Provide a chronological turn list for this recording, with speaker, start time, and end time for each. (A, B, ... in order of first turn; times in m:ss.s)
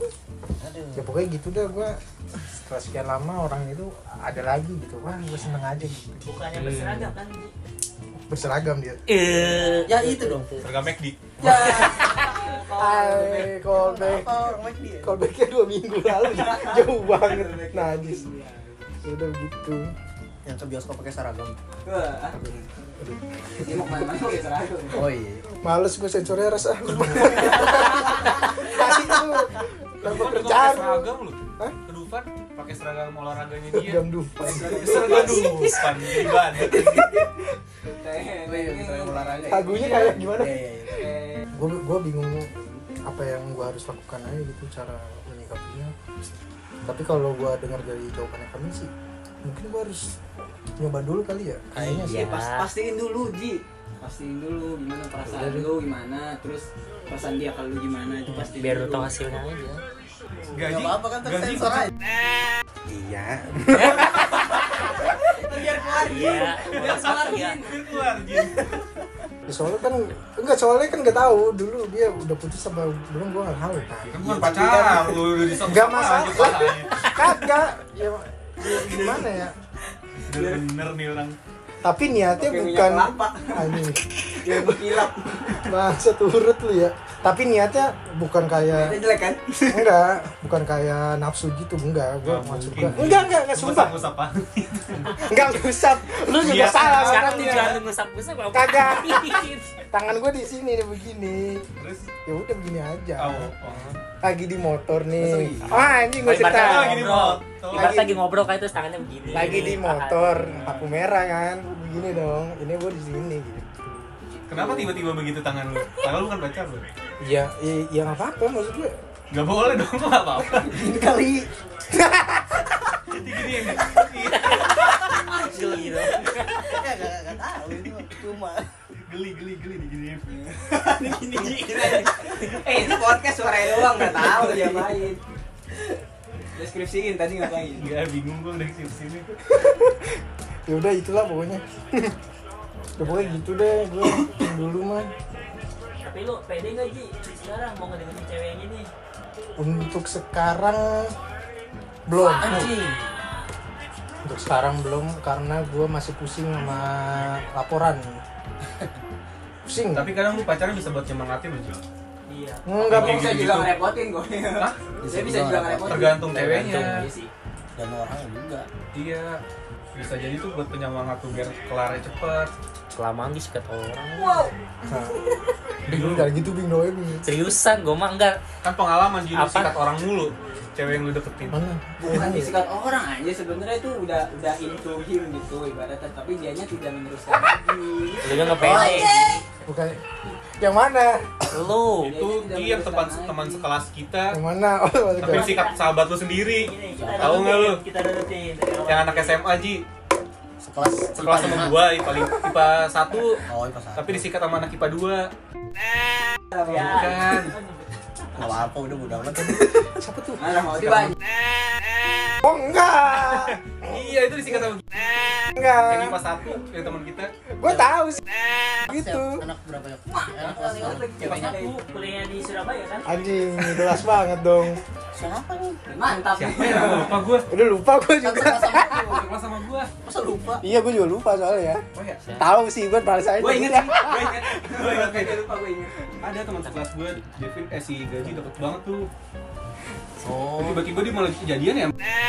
0:00.6-0:01.1 A
0:01.0-0:06.3 B
0:06.2-0:07.5 C
0:06.5-0:07.1 D
0:08.3-0:09.0 B
0:09.1-0:10.3 D
0:09.7-0:10.7 A
0:10.6-0:11.6 E
0:11.4-0:13.6 F
0:11.4-0:12.0 B
0:12.8-0:14.4 B
0:13.7-0:15.2 A
0:14.2-0:14.5 F
0:15.0-0:18.2 B
0:16.1-0:19.0 F
0:19.0-0:19.9 B
0:20.4-0:21.6 A
0:21.8-0:22.4 F
0:23.0-0:24.0 B
0:23.6-0:25.1 F
0:24.9-0:25.4 A
0:25.6-0:31.8 B
0:27.2-0:28.8 F
0:30.0-0:37.1 E
0:33.7-0:35.4 B
0:34.4-0:37.3 F
0:37.9-0:41.5 F
0:38.4-0:41.1 A
0:39.5-0:40.6 B
0:41.5-0:42.5 B
0:43.0-0:45.9 B
0:46.8-0:48.9 B
0:49.4-0:50.1 B
0:50.8-0:52.2 B
0:51.8-0:59.1 F
0:52.1-0:52.7 D
0:55.3-0:55.7 B
0:58.5-0:59.8 D
1:00.5-1:01.9 E
1:00.6-1:01.9 A
1:02.9-1:04.8 B
1:05.3-1:08.6 F
1:06.0-1:07.6 D
1:06.7-1:08.6 E
1:09.5-1:19.5 B
1:14.0-1:17.0 E
1:14.4-1:15.1 F
1:18.6-1:19.4 F
1:20.3-1:21.4 E
1:20.3-1:20.6 F
1:21.8-1:25.1 B
1:22.4-1:23.8 F
1:24.4-1:25.7 F
1:25.6-1:29.0 B
1:28.6-1:29.9 F
1:29.7-1:34.0 B
1:32.2-1:35.3 E
1:35.1-1:37.8 B
1:36.1-1:39.7 D
1:36.4-1:37.8 E
1:38.5-1:41.7 B
1:41.8-1:42.1 E
1:42.3-1:43.5 B
1:43.2-1:43.9 E
1:44.2-1:47.2 B
1:45.2-1:45.8 A
1:46.2-1:50.6 D
1:46.2-1:48.1 E
1:47.7-1:48.2 B
1:49.3-1:54.1 B
1:49.3-1:49.8 E
1:50.5-1:50.9 E
1:54.5-1:56.9 E
1:54.6-1:54.9 F
1:57.2-1:59.0 B
1:59.3-2:00.9 E
2:00.7-2:01.5 A
2:01.9-2:02.7 B
2:03.1-2:05.1 E
2:04.5-2:06.7 D
2:05.2-2:06.1 F
2:06.5-2:08.7 A
2:09.1-2:10.4 E
2:10.3-2:15.2 F
2:16.6-2:17.9 F
2:17.8-2:19.3 E
2:19.5-2:20.0 B
2:20.7-2:22.2 B
2:23.0-2:25.1 B
2:23.0-2:23.4 C
2:26.0-2:28.9 C
2:29.6-2:31.1 B
2:32.1-2:32.8 B
2:32.2-2:33.2 C
2:32.4-2:33.0 A
2:34.2-2:38.2 B
2:39.7-2:40.2 B
2:39.9-2:41.8 E
2:42.3-2:42.7 C
2:42.7-2:43.5 B
2:42.8-2:43.8 E
2:42.8-2:47.3 F
2:45.0-2:46.7 A
2:45.8-2:47.1 E
2:46.3-2:47.1 D
2:47.8-2:48.7 A
2:48.9-2:49.4 E
2:49.9-2:52.5 E
2:52.9-2:54.5 D
2:54.2-2:54.5 F
2:54.9-2:55.2 B
2:55.9-2:56.4 E
2:55.9-2:57.3 B
2:57.2-2:58.4 D
2:58.6-3:01.6 E
2:59.3-2:59.8 D
3:01.5-3:02.6 B
3:02.0-3:09.4 F
3:08.2-3:09.2 D
3:08.6-3:09.4 A
3:09.7-3:10.0 B
3:10.6-3:11.5 B
3:11.5-3:12.2 D
3:12.0-3:13.7 F
3:12.0-3:14.4 E
3:14.3-3:15.6 B
3:15.2-3:17.8 E
3:15.2-3:19.4 C
3:16.9-3:17.5 A
3:18.9-3:19.9 E
3:20.6-3:22.0 A
3:21.2-3:23.4 E
3:23.5-3:24.3 A
3:24.0-3:25.3 E
3:26.5-3:27.0 F
3:26.6-3:28.6 C
3:26.7-3:27.6 E
3:28.4-3:29.9 A
3:29.4-3:30.7 B
3:30.4-3:31.2 F
3:32.4-3:34.0 B
3:33.2-3:35.1 E
3:35.6-3:36.2 B
3:35.9-3:37.3 E
3:37.5-3:38.2 B
3:38.8-3:39.5 B
3:38.9-3:41.7 A
3:40.1-3:41.8 F
3:41.2-3:41.6 E
3:41.6-3:43.3 C
3:43.1-3:44.8 B
3:45.1-3:45.8 A
3:45.9-3:47.2 F
3:46.3-3:47.5 E
3:47.5-3:49.2 B
3:48.2-3:49.3 A
3:49.0-3:49.9 E
3:50.0-3:50.6 A
3:50.6-3:51.8 B
3:52.0-3:52.2 E
3:52.4-3:54.4 B
3:53.4-3:56.2 F
3:54.6-3:55.4 E
3:56.2-3:59.1 E
4:00.2-4:00.9 A
4:00.6-4:01.9 E